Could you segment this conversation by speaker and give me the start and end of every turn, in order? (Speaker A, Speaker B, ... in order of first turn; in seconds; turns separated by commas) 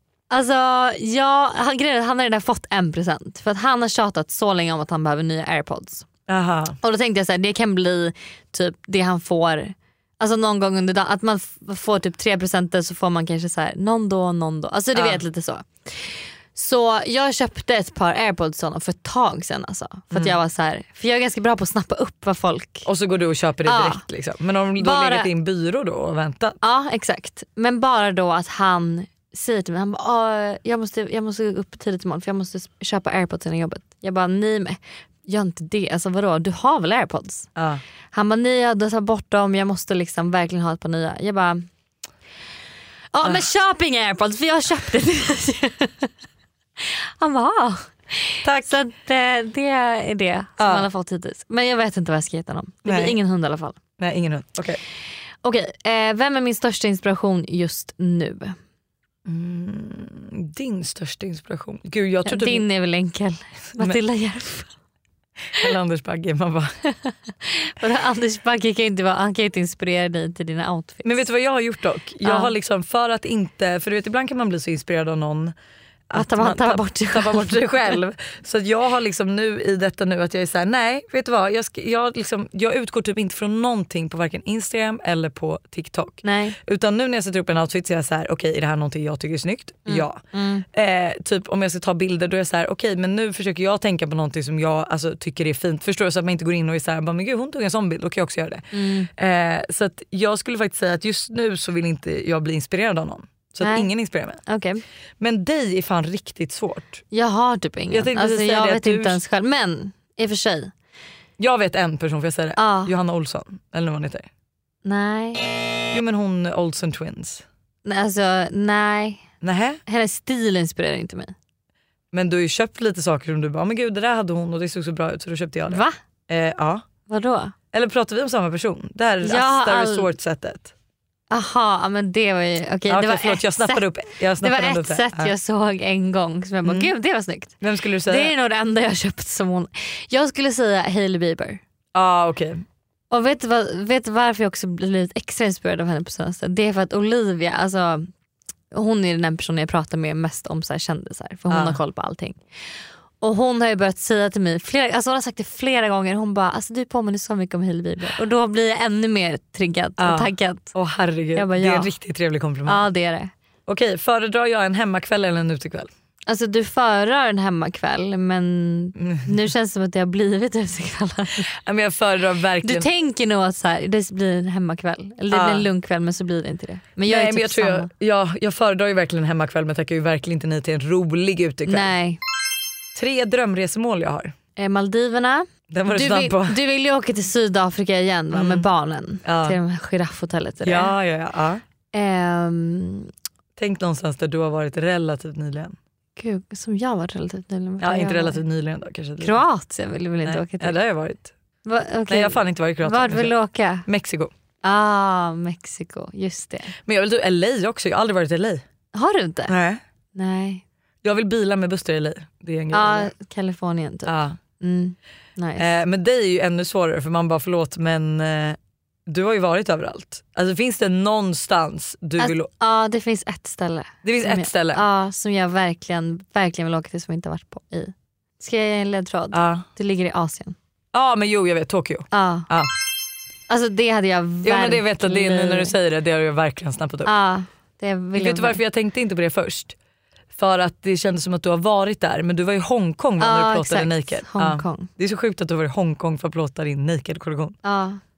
Speaker A: 0.3-6.1, Speaker B: 6.3-6.8, Speaker A: 6.8-22.9, Speaker B: 14.9-15.2, Speaker B: 22.9-26.6, Speaker A: 23.6-24.0, Speaker A: 24.8-25.3, Speaker A: 26.6-37.5, Speaker B: 37.6-37.8, Speaker A: 38.1-41.6, Speaker A: 43.1-46.1, Speaker A: 46.8-53.8, Speaker B: 48.4-48.8, Speaker B: 50.6-50.9, Speaker B: 52.9-53.2, Speaker B: 54.0-54.8, Speaker A: 55.4-58.5, Speaker B: 59.3-62.6, Speaker A: 62.2-64.7, Speaker B: 65.5-66.7, Speaker A: 67.0-71.2, Speaker B: 71.0-75.5, Speaker A: 72.2-72.5, Speaker B: 76.1-90.2, Speaker A: 76.2-78.0, Speaker A: 86.2-86.6, Speaker A: 89.9-90.7, Speaker B: 90.7-104.4, Speaker A: 98.7-99.1, Speaker A: 103.6-103.9, Speaker A: 104.5-104.8, Speaker B: 105.2-107.0, Speaker A: 107.1-110.7, Speaker B: 107.9-109.2, Speaker B: 111.4-114.3, Speaker A: 112.6-112.9, Speaker A: 114.8-115.5, Speaker B: 115.9-117.4, Speaker A: 117.8-119.2, Speaker B: 119.4-119.8, Speaker A: 119.9-121.3, Speaker B: 122.1-126.8, Speaker A: 125.7-126.0, Speaker A: 127.1-127.5, Speaker B: 127.7-130.7, Speaker A: 129.2-130.1, Speaker A: 131.3-133.9, Speaker B: 132.9-135.3, Speaker A: 134.4-141.6, Speaker B: 136.6-136.9, Speaker B: 137.6-138.3, Speaker B: 141.9-142.6, Speaker A: 143.1-148.1, Speaker A: 148.7-152.4, Speaker B: 151.5-151.8, Speaker A: 153.2-160.8, Speaker B: 160.0-162.9, Speaker A: 161.3-162.0, Speaker A: 162.7-163.3, Speaker B: 163.7-165.9, Speaker A: 166.3-171.5, Speaker B: 171.5-172.9, Speaker A: 172.6-177.9, Speaker B: 175.3-175.7, Speaker B: 177.1-181.9, Speaker A: 181.7-182.2, Speaker B: 182.9-184.3, Speaker A: 184.6-190.9, Speaker B: 185.7-186.6, Speaker B: 188.3-188.7, Speaker B: 189.2-189.6, Speaker B: 190.6-191.6, Speaker A: 191.9-193.1, Speaker B: 193.6-195.8, Speaker A: 196.2-198.4, Speaker B: 197.8-199.4, Speaker A: 199.2-200.8, Speaker B: 200.2-201.3, Speaker A: 201.7-203.8, Speaker B: 202.1-203.3, Speaker B: 203.9-204.3, Speaker A: 204.6-206.7, Speaker B: 206.9-208.6, Speaker A: 208.9-209.6, Speaker B: 209.5-209.8, Speaker A: 210.2-210.6, Speaker B: 211.0-213.1, Speaker A: 212.7-215.7, Speaker B: 214.1-214.4, Speaker B: 215.6-222.5, Speaker A: 222.2-230.6, Speaker B: 224.0-224.8, Speaker B: 229.3-229.7, Speaker B: 230.9-232.7, Speaker A: 232.1-232.5, Speaker A: 233.5-235.7, Speaker B: 234.4-237.1, Speaker A: 237.1-238.6, Speaker B: 238.2-239.8, Speaker B: 240.4-247.6, Speaker A: 243.2-244.9, Speaker A: 247.6-248.0